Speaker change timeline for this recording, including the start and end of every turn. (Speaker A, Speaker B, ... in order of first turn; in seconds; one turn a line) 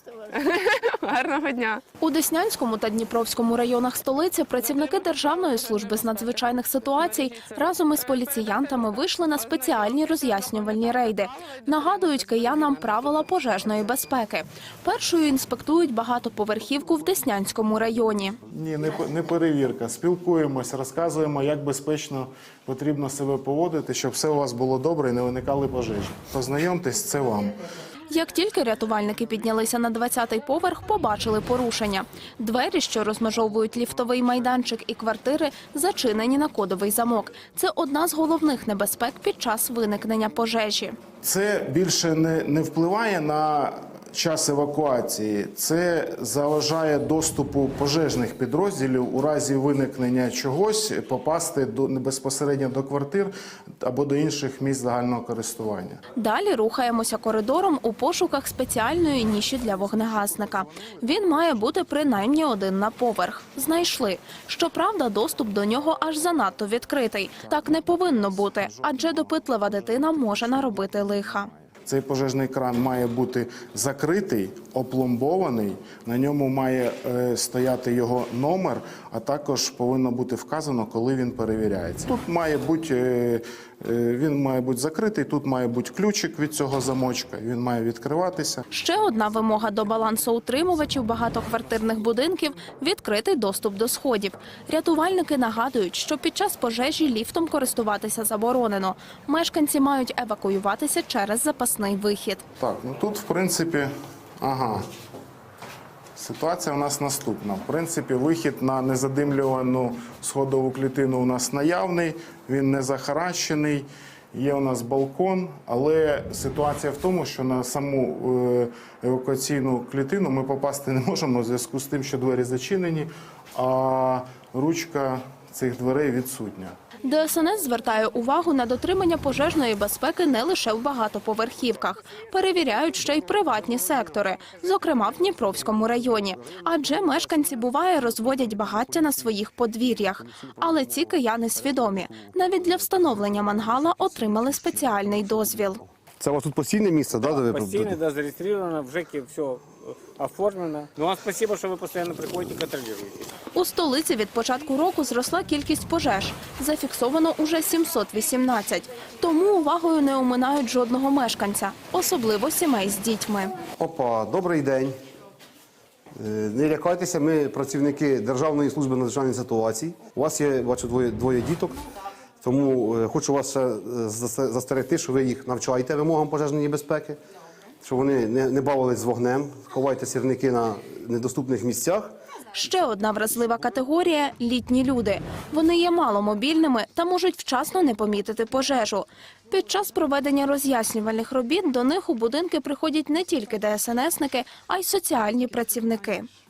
Speaker A: 0.3-1.8
Speaker B: 2.0-18.4
Speaker A: 4.8-8.8
Speaker A: 9.6-11.0
Speaker A: 11.6-12.9
Speaker C: 18.5-27.6
Speaker B: 28.1-40.9
Speaker C: 41.2-56.0
Speaker B: 56.2-71.5
Speaker C: 67.5-88.6
Speaker B: 88.7-102.4
Speaker C: 102.6-104.8
Speaker C: 106.2-126.8
Speaker B: 127.0-145.8
Speaker D: 146.2-148.0
Speaker E: 147.1-153.3
Speaker B: 153.5-163.5
Speaker D: 163.7-164.9
Speaker D: 166.2-171.8
Speaker D: 172.4-177.2
Speaker D: 177.8-182.1
Speaker B: 182.5-196.2